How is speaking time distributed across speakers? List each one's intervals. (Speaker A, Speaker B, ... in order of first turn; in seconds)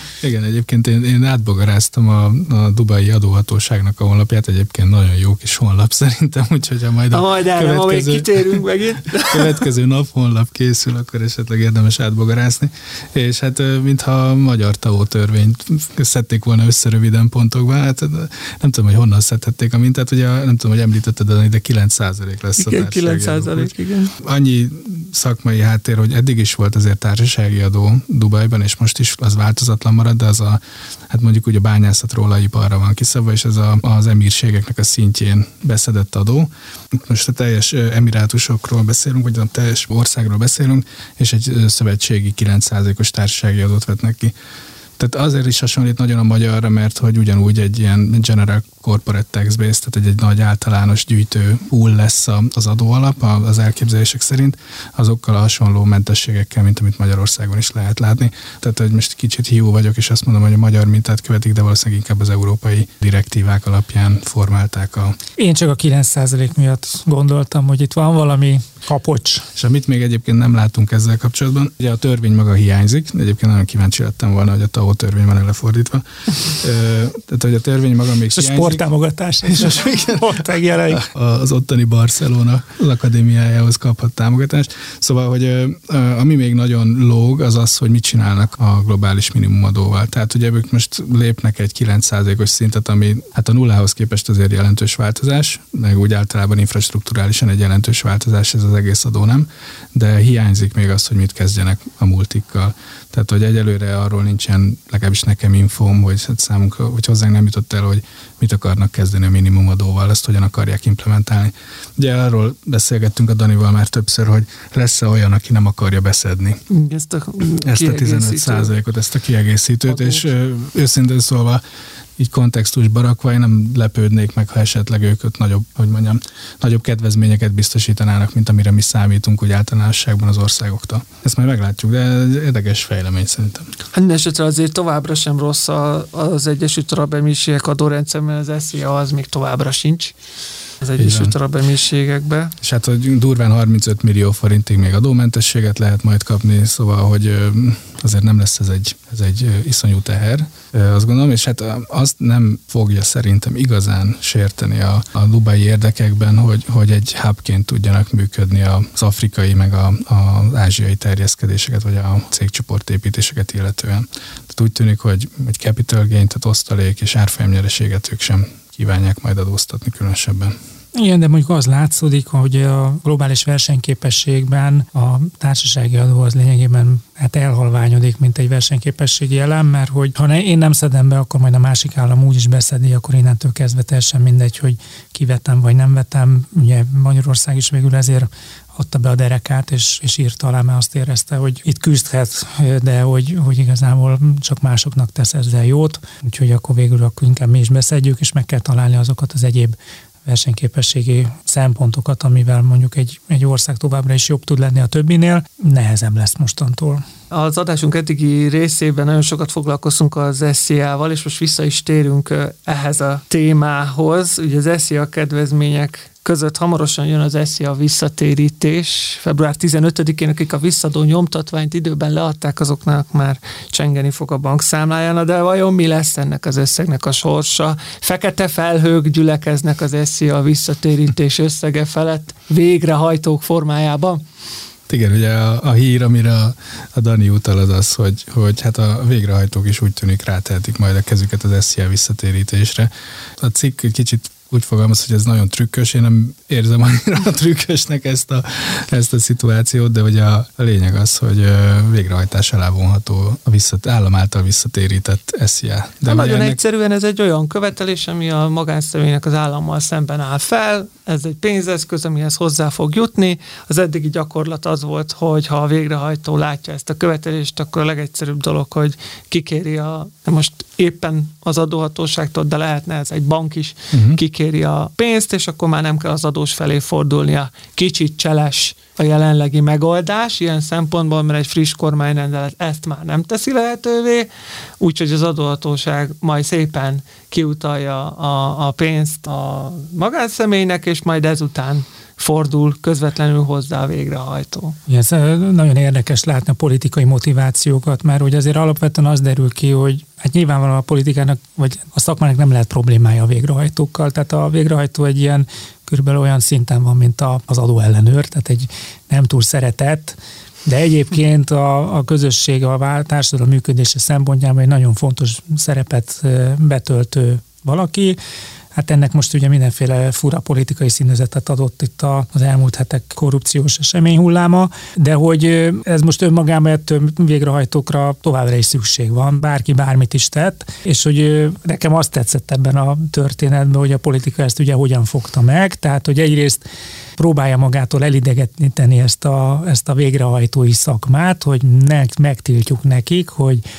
Speaker A: 0.2-8.7, 9.3-44.3, 45.0-65.2, 69.6-78.9, 79.4-116.6, 117.6-121.6, 122.2-133.7, 141.0-141.3, 142.6-170.6, 234.9-256.6, 273.9-274.2
Speaker B: 7.1-9.7, 22.6-24.1, 116.7-118.7, 119.9-120.2, 133.9-140.2, 140.8-142.6, 207.3-234.2, 256.0-284.3, 284.8-294.8
Speaker C: 65.4-69.5, 78.3-81.0, 170.9-207.0, 294.9-318.2, 318.7-336.6, 337.2-343.6